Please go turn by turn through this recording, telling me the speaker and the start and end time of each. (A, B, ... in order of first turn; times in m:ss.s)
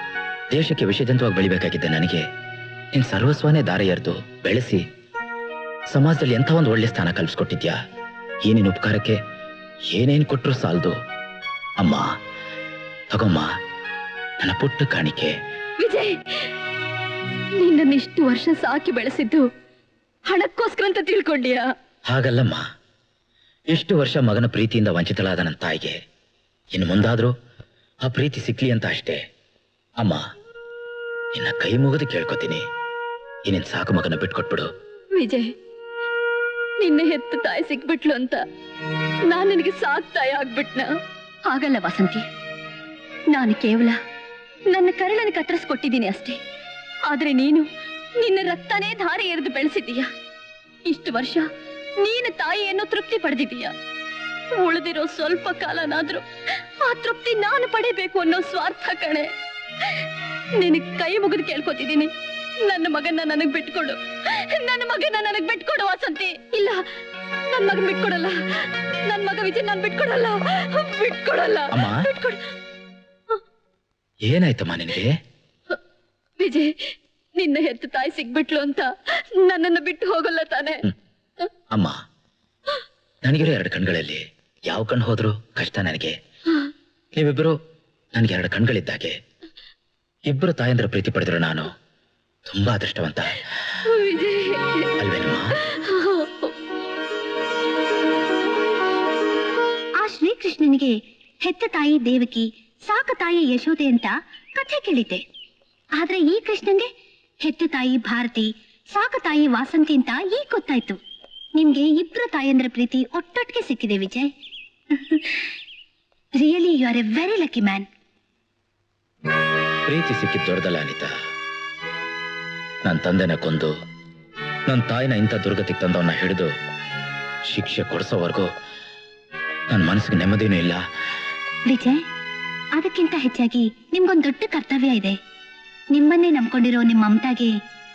0:00.5-0:02.2 A
0:02.9-0:04.8 A
0:05.9-0:07.7 A
0:08.4-0:09.2 A
0:09.9-0:10.9 A
0:11.8-0:12.1 A
0:13.1-0:13.5 A
0:14.4-0:15.3 A
0:15.8-0:16.5 B
0:17.6-0:19.4 B
0:20.3-0:21.7 B
0:22.1-0:22.6 A
0:23.7-0:26.0 A
0:26.7-0:27.3 A
0:28.0-0:29.2 A
0:31.3-0:32.6 A
0:33.4-0:34.7 A
0:35.2-0:35.5 B
0:36.8-0:38.4 B
0:39.3-0:40.9 B
0:41.4-0:42.2 B
0:43.3-0:44.0 B
0:44.7-0:46.4 B
0:47.0-0:50.1 B
0:50.8-0:51.5 B
0:52.0-0:53.7 B
0:54.5-0:56.2 B
0:56.8-0:59.3 B
1:00.6-1:02.1 B
1:02.6-1:06.8 B
1:07.5-1:08.4 B
1:09.0-1:12.4 B
1:11.7-1:12.0 A
1:14.2-1:15.1 A
1:16.4-1:20.8 B
1:23.2-1:26.1 A
1:27.1-1:27.6 A
1:28.1-1:29.2 A
1:30.3-1:31.7 A
1:32.5-1:33.4 A
1:33.9-1:34.9 B
1:35.0-1:35.6 A
1:35.7-1:36.5 B
1:40.0-1:45.2 C
1:46.0-1:46.8 C
1:47.4-1:51.0 C
1:51.6-1:54.3 C
1:54.9-1:55.4 C
1:56.4-1:57.8 C
1:59.9-2:01.1 A
2:02.8-2:03.7 A
2:04.7-2:06.5 A
2:07.5-2:08.5 A
2:09.7-2:10.8 A
2:11.7-2:12.0 C
2:12.7-2:15.2 C
2:15.9-2:17.5 C